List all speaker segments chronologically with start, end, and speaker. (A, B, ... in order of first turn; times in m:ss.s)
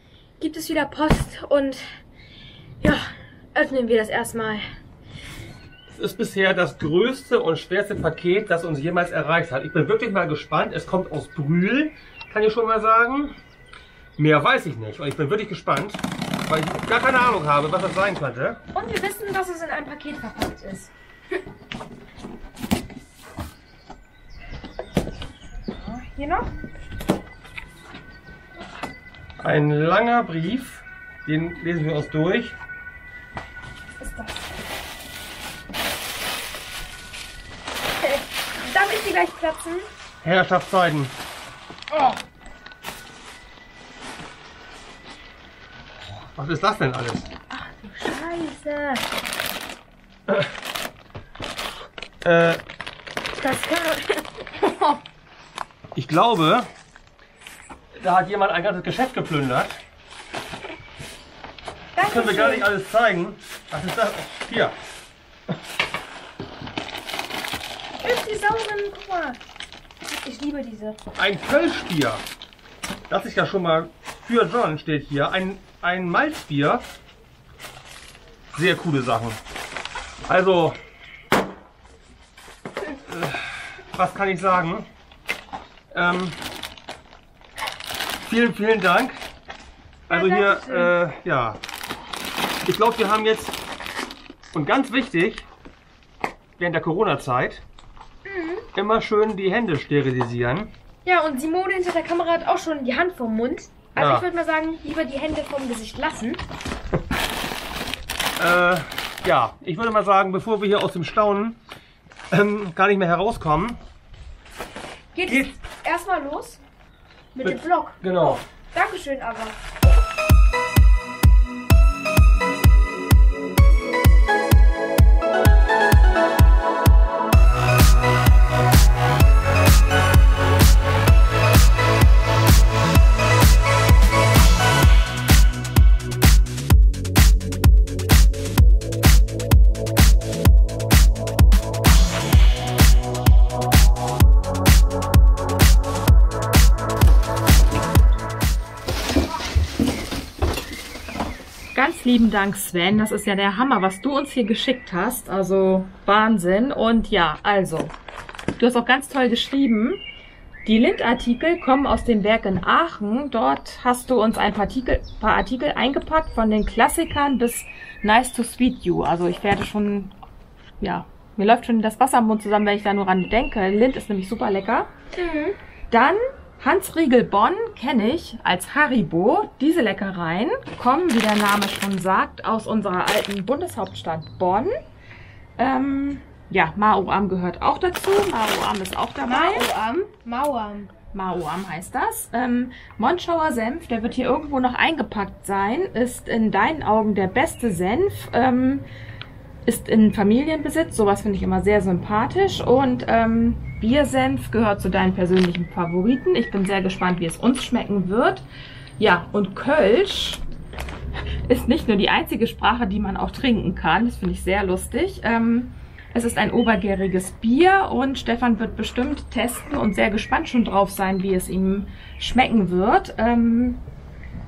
0:00.4-0:02.0 A
0:03.6-0:04.7 A
0:05.9-0:13.4 B
0:14.2-0:18.6 B
0:18.7-0:20.9 A
0:25.8-0:26.5 A
0:29.4-0:32.6 B
0:34.0-0:34.4 A
0:38.1-0:39.9 A
0:40.2-0:41.1 B
0:46.4-0:47.3 B
0:47.5-0:49.0 A
0:52.2-0:52.6 B
0:53.3-0:55.0 A
0:56.0-0:56.7 B
0:58.0-0:59.8 B
1:02.0-1:02.7 A
1:02.0-1:04.8 B
1:08.0-1:09.4 A
1:10.1-1:11.0 A
1:11.2-1:12.2 B
1:13.1-1:16.9 B
1:18.5-1:19.4 B
1:20.3-1:20.8 B
1:23.1-1:24.9 B
1:25.9-1:26.4 B
1:28.2-1:29.2 B
1:30.1-1:30.9 A
1:30.1-1:31.6 B
1:32.6-1:33.6 B
1:34.5-1:35.5 B
1:36.6-1:37.6 B
1:38.2-1:38.7 A
1:38.8-1:40.7 B
1:41.0-1:46.4 A
1:44.0-1:44.3 B
1:48.4-1:51.6 B
1:52.3-1:53.8 B
1:55.1-1:56.6 A
1:57.4-1:59.6 A
1:57.4-1:58.4 B
2:31.7-2:37.9 C
2:38.6-2:40.0 C
2:40.6-2:50.1 C
2:50.8-2:54.9 C
2:55.2-2:55.6 A
2:55.9-3:04.7 C
3:05.6-3:09.7 C
3:09.2-3:10.9 A
3:11.1-3:18.8 C
3:19.6-3:28.4 C
3:29.0-3:30.4 C
3:31.5-3:43.8 C